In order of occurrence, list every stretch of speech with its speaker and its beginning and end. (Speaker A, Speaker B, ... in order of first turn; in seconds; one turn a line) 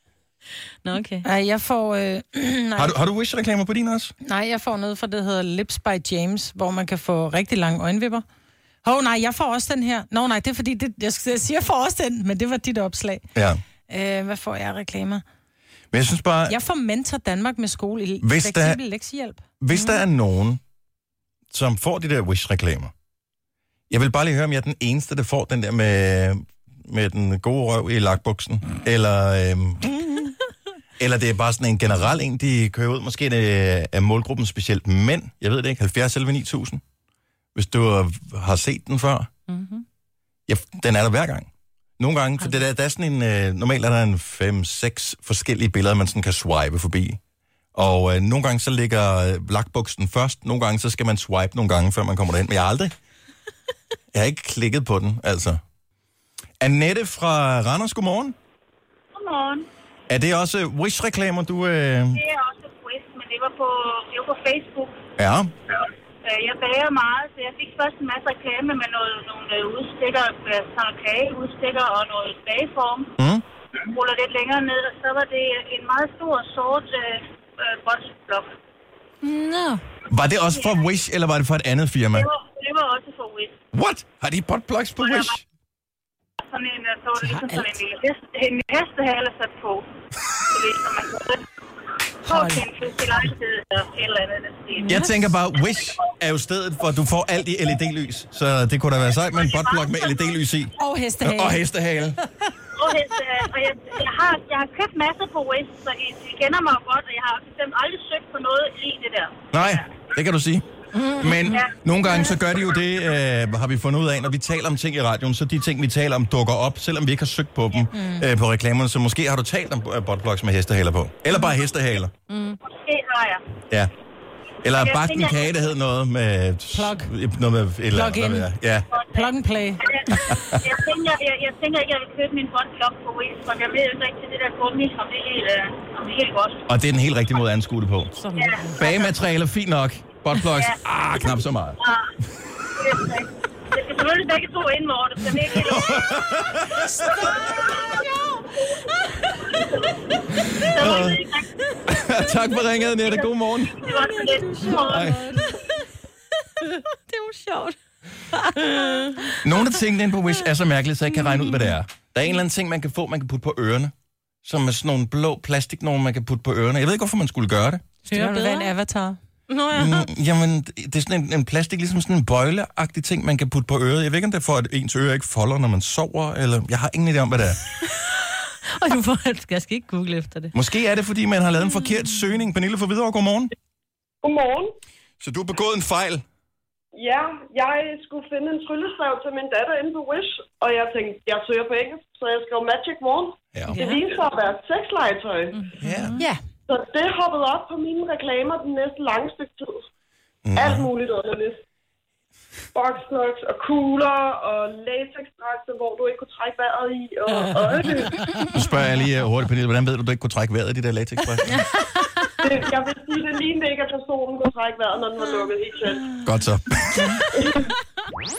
Speaker A: 0.8-1.3
Speaker B: 1.2-3.0
Speaker C: 2.8-4.1
Speaker B: 4.2-8.2
Speaker B: 8.8-13.3
Speaker C: 13.3-13.6
Speaker B: 13.9-15.2
Speaker C: 15.9-16.6
Speaker B: 16.5-19.9
Speaker C: 18.2-18.8
Speaker C: 19.6-20.6
Speaker C: 21.5-22.9
Speaker C: 23.9-30.2
Speaker C: 31.0-36.8
Speaker C: 37.5-39.3
Speaker A: 39.5-39.8
Speaker C: 40.5-47.2
Speaker C: 47.8-52.9
Speaker C: 54.1-55.6
Speaker C: 56.6-58.4
Speaker D: 59.1-59.7
Speaker C: 60.1-62.2
Speaker D: 62.1-65.0
Speaker C: 65.2-65.5
Speaker D: 66.2-73.1
Speaker C: 73.2-73.4
Speaker D: 73.8-78.5
Speaker A: 79.2-79.8
Speaker C: 80.1-82.3
Speaker D: 80.5-80.8
Speaker D: 82.1-83.5
Speaker C: 83.7-85.4
Speaker D: 85.0-85.4
Speaker D: 86.5-89.8
Speaker D: 90.5-91.5
Speaker D: 92.2-94.9
Speaker B: 92.2-92.6
Speaker C: 94.9-102.2
Speaker D: 99.4-100.3
Speaker B: 100.8-101.6
Speaker D: 102.8-109.9
Speaker C: 109.5-110.7
Speaker A: 111.0-111.4
Speaker C: 111.2-122.1
Speaker D: 111.4-112.3
Speaker B: 117.9-118.2
Speaker A: 122.3-122.6
Speaker D: 122.7-123.4
Speaker C: 124.6-128.9
Speaker D: 124.7-125.6
Speaker B: 126.7-127.1
Speaker B: 127.9-128.5
Speaker D: 128.9-136.7
Speaker B: 129.1-130.2
Speaker C: 136.7-138.1
Speaker D: 138.4-139.1
Speaker C: 138.8-141.8
Speaker D: 140.4-140.8
Speaker D: 141.8-142.1
Speaker D: 142.7-146.2
Speaker C: 145.6-147.3
Speaker D: 147.5-147.8
Speaker D: 149.5-149.9
Speaker D: 150.6-151.5
Speaker C: 150.8-151.2
Speaker C: 151.9-153.8
Speaker D: 153.0-155.4
Speaker A: 153.9-155.2
Speaker C: 154.8-155.3
Speaker A: 156.6-157.8
Speaker A: 158.3-159.4
Speaker C: 159.4-163.9
Speaker C: 164.4-167.8
Speaker A: 168.1-168.7
Speaker B: 168.2-169.2
Speaker A: 169.5-170.1
Speaker C: 169.7-177.6
Speaker A: 177.9-180.5
Speaker C: 180.6-183.5
Speaker E: 184.2-184.7
Speaker C: 185.2-186.2
Speaker E: 186.9-195.7
Speaker C: 193.6-193.8
Speaker C: 195.8-196.2
Speaker A: 195.9-196.2
Speaker B: 196.2-196.4
Speaker E: 196.7-199.8
Speaker C: 200.4-200.9
Speaker E: 200.6-201.6
Speaker E: 202.7-208.5
Speaker C: 208.5-211.7
Speaker A: 211.8-212.0
Speaker E: 212.4-216.2
Speaker C: 216.2-217.2
Speaker E: 217.3-217.7